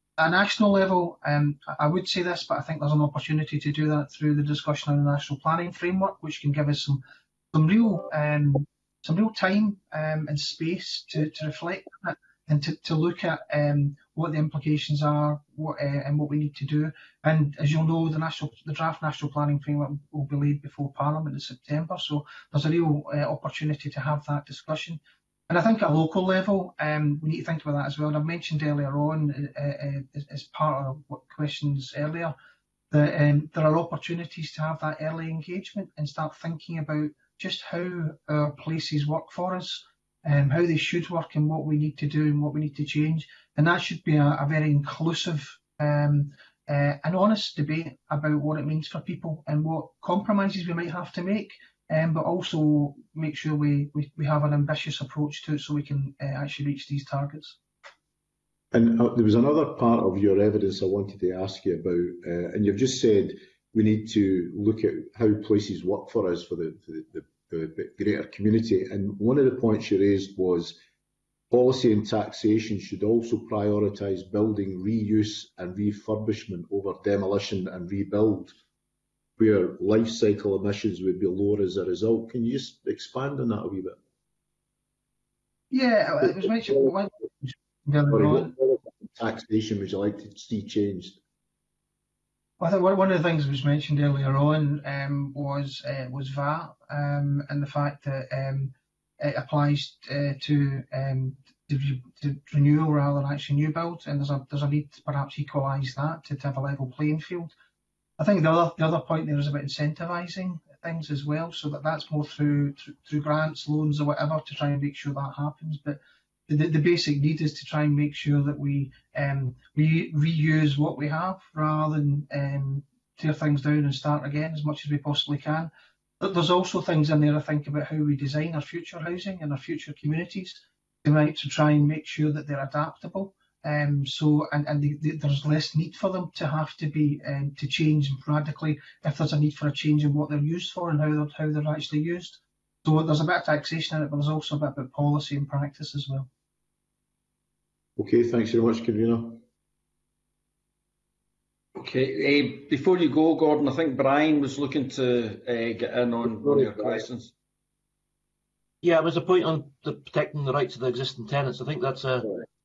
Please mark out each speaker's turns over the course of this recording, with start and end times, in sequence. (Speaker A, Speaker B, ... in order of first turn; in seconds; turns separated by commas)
Speaker A: 0.2-32.4, Speaker A: 32.9-57.6, Speaker B: 58.7-70.8, Speaker B: 71.5-78.5, Speaker B: 79.4-84.0, Speaker A: 85.7-88.5, Speaker B: 88.1-91.2, Speaker A: 92.6-107.5, Speaker A: 108.2-146.3, Speaker B: 148.0-149.4, Speaker C: 151.8-157.3, Speaker D: 158.8-162.3